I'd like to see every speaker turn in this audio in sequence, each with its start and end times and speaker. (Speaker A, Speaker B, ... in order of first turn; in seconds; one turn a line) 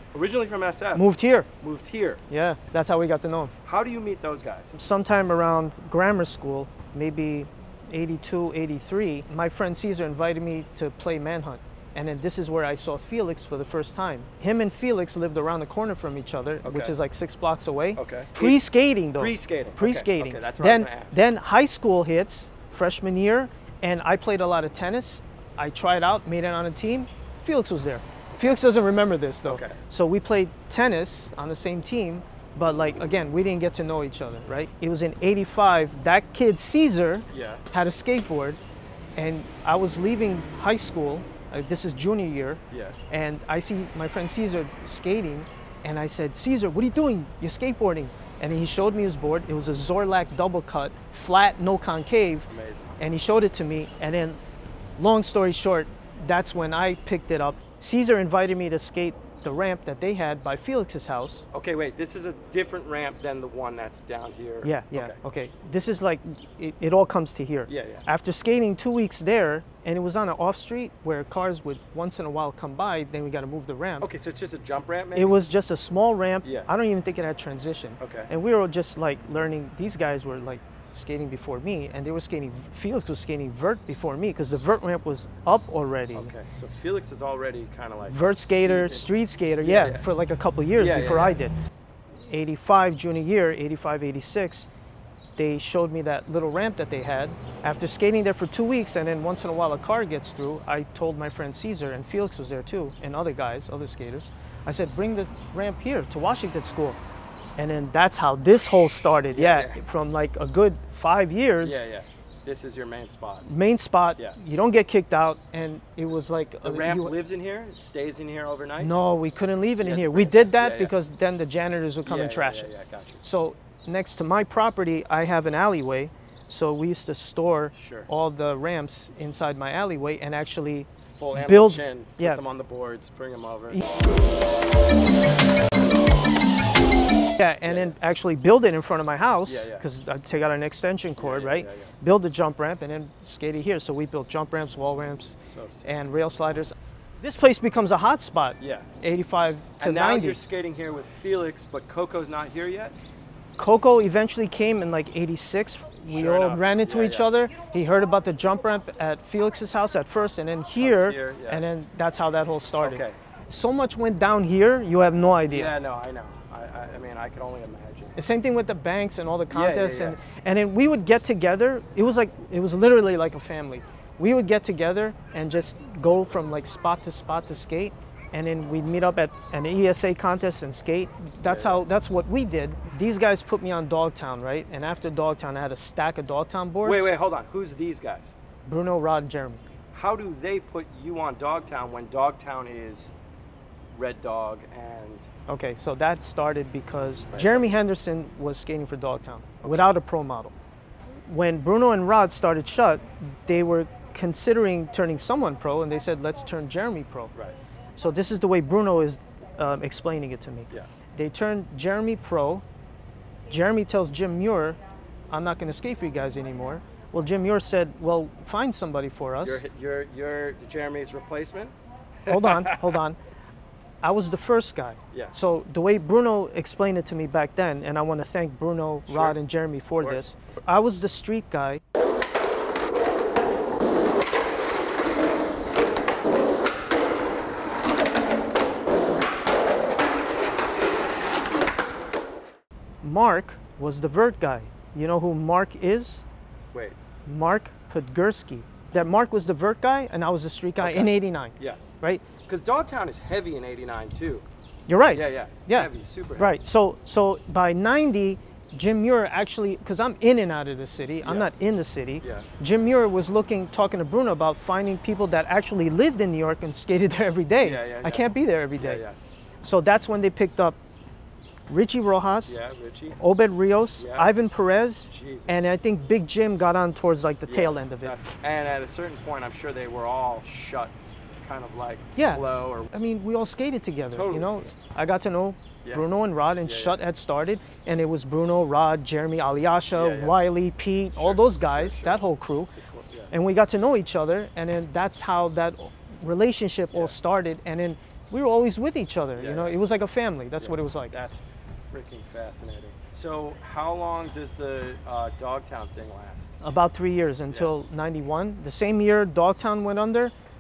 Speaker A: 0.1-1.1
Speaker B: 0.9-1.5
Speaker A: 1.6-2.2
Speaker B: 2.3-3.5
Speaker A: 3.6-4.8
Speaker B: 4.7-38.6
Speaker A: 16.6-16.9
Speaker A: 17.9-18.6
Speaker A: 19.2-21.2
Speaker A: 29.4-29.8
Speaker A: 37.3-37.6
Speaker B: 39.2-54.4
Speaker A: 42.7-43.0
Speaker A: 52.5-53.0
Speaker B: 55.0-61.5
Speaker A: 61.5-65.2
Speaker B: 64.6-74.1
Speaker A: 67.7-68.0
Speaker A: 74.0-75.4
Speaker B: 75.1-86.3
Speaker A: 76.4-76.7
Speaker A: 78.0-78.3
Speaker A: 86.1-90.1
Speaker B: 88.1-91.6
Speaker A: 90.8-91.4
Speaker B: 92.3-94.7
Speaker B: 95.4-107.0
Speaker B: 107.6-111.8
Speaker A: 109.3-109.8
Speaker A: 111.6-113.5
Speaker B: 113.4-117.1
Speaker A: 116.6-118.9
Speaker B: 118.8-122.7
Speaker A: 119.8-120.9
Speaker A: 122.0-123.2
Speaker B: 123.2-132.4
Speaker A: 127.7-128.1
Speaker A: 131.1-133.8
Speaker B: 137.3-150.4
Speaker A: 137.6-137.9
Speaker A: 139.4-139.8
Speaker A: 141.2-141.9
Speaker A: 145.4-146.0
Speaker A: 148.6-148.9
Speaker A: 149.8-152.9
Speaker B: 153.6-165.7
Speaker A: 156.0-157.3
Speaker A: 160.8-161.6
Speaker A: 162.8-163.2
Speaker A: 165.4-168.1
Speaker B: 168.2-187.1
Speaker A: 169.5-170.2
Speaker A: 181.4-181.8
Speaker A: 186.8-188.3
Speaker B: 188.7-189.6
Speaker A: 189.9-193.1
Speaker A: 193.9-195.3
Speaker B: 195.5-200.6
Speaker A: 197.3-197.7
Speaker A: 199.6-199.9
Speaker B: 201.3-207.3
Speaker B: 208.0-212.6
Speaker B: 213.5-214.8
Speaker B: 215.3-219.6
Speaker A: 219.4-223.0
Speaker B: 222.3-223.2
Speaker B: 224.0-231.8
Speaker A: 229.1-229.3
Speaker B: 243.0-246.2
Speaker B: 247.2-252.2
Speaker A: 250.8-251.8
Speaker A: 252.5-254.4
Speaker B: 254.9-269.0
Speaker A: 255.1-256.6
Speaker A: 261.2-261.5
Speaker A: 262.2-262.5
Speaker A: 267.6-269.2
Speaker B: 269.6-270.8
Speaker B: 271.7-272.6
Speaker A: 272.4-273.2
Speaker B: 273.2-278.2
Speaker A: 274.0-274.3
Speaker A: 275.1-275.7
Speaker A: 277.5-282.9
Speaker B: 282.1-292.7
Speaker A: 284.1-284.7
Speaker A: 286.6-287.0
Speaker A: 289.9-290.4
Speaker A: 291.1-293.3
Speaker B: 293.3-301.1
Speaker A: 299.4-299.7
Speaker A: 300.6-306.6
Speaker B: 306.6-310.3